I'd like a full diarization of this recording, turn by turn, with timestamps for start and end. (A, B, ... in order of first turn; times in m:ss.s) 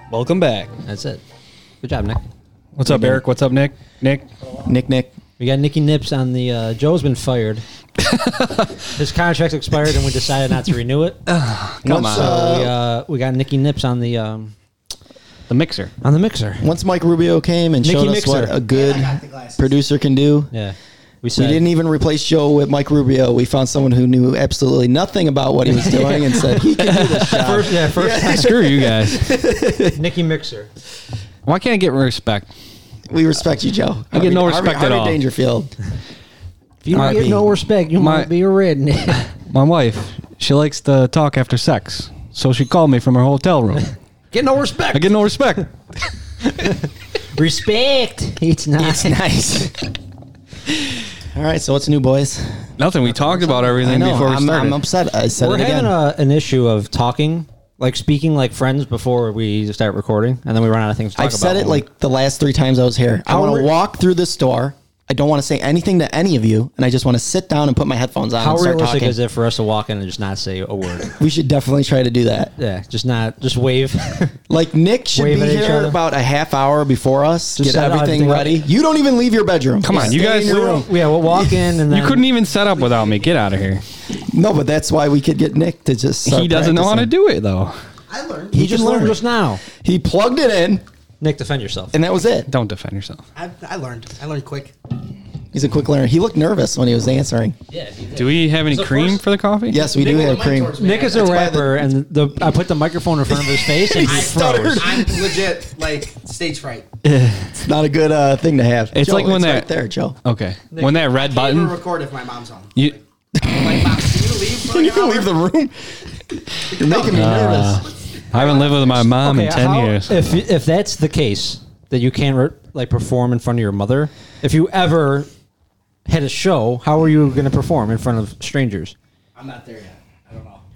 0:00.1-0:00.7 A
0:00.8-0:01.2 B
0:01.8-0:02.2 B
0:02.7-0:04.2 A
0:02.8-0:03.2 B
0:04.6-0:05.1 C
0:05.4-0:07.6 B
0:08.0-0:08.7 A
0:08.9-0:11.2 B
0:11.3-0:12.4 A
0:11.8-0:12.7 C
0:12.1-0:14.5 B
0:15.5-0:15.9 A
0:16.0-0:16.7 B
0:16.6-0:20.5 C
0:17.8-0:18.6 B
0:18.7-0:19.7 D
0:20.5-0:21.6 B
0:21.4-0:30.0 C
0:25.7-0:26.7 B
0:26.8-0:29.2 A
0:27.3-0:28.5 B
0:29.9-0:30.7 B
0:31.4-0:32.5 A
0:33.1-0:35.7 C
0:34.1-0:35.2 A
0:36.8-0:39.2 B
0:36.9-0:37.4 C
0:36.9-0:37.3 A
0:38.0-0:38.3 A
0:39.5-0:43.9 A
0:44.3-0:45.1 B
0:44.9-0:45.7 A
0:47.4-0:49.2 B
0:48.8-0:49.9 C
0:51.3-0:52.7 C
0:52.8-0:54.8 A
0:53.3-0:53.7 B
0:53.7-0:55.9 C
0:55.4-1:01.8 B
1:01.2-1:09.2 C
1:03.3-1:03.7 B
1:08.4-1:11.2 B
1:11.1-1:12.5 C
1:12.6-1:14.4 B
1:14.5-1:21.5 C
1:15.1-1:16.0 B
1:17.6-1:18.6 B
1:19.8-1:20.7 A
1:19.9-1:22.2 B
1:21.9-1:23.8 A
1:22.5-1:23.4 D
1:24.2-1:27.1 C
1:26.2-1:27.7 A
1:28.1-1:28.6 D
1:28.5-1:29.2 C
1:28.5-1:29.6 B
1:29.8-1:30.8 C
1:31.2-1:31.9 B
1:31.9-1:32.5 C
1:32.5-1:33.2 A
1:33.3-1:34.7 D
1:35.5-1:37.6 C
1:37.7-1:39.2 B
1:38.1-1:39.8 A
1:39.7-1:41.8 C
1:39.7-1:41.4 D
1:40.8-1:44.9 B
1:43.3-1:45.4 C
1:44.0-1:46.9 D
1:47.0-1:47.5 A
1:47.6-1:50.2 C
1:48.9-1:49.7 A
1:50.2-1:51.8 A
1:50.8-1:55.3 D
1:53.4-1:54.0 C
1:54.6-1:55.7 C
1:56.6-1:57.8 C
1:56.7-1:59.1 D
1:57.1-2:00.1 A
1:59.2-2:05.3 B
2:06.0-2:08.9 B
2:09.4-2:10.6 D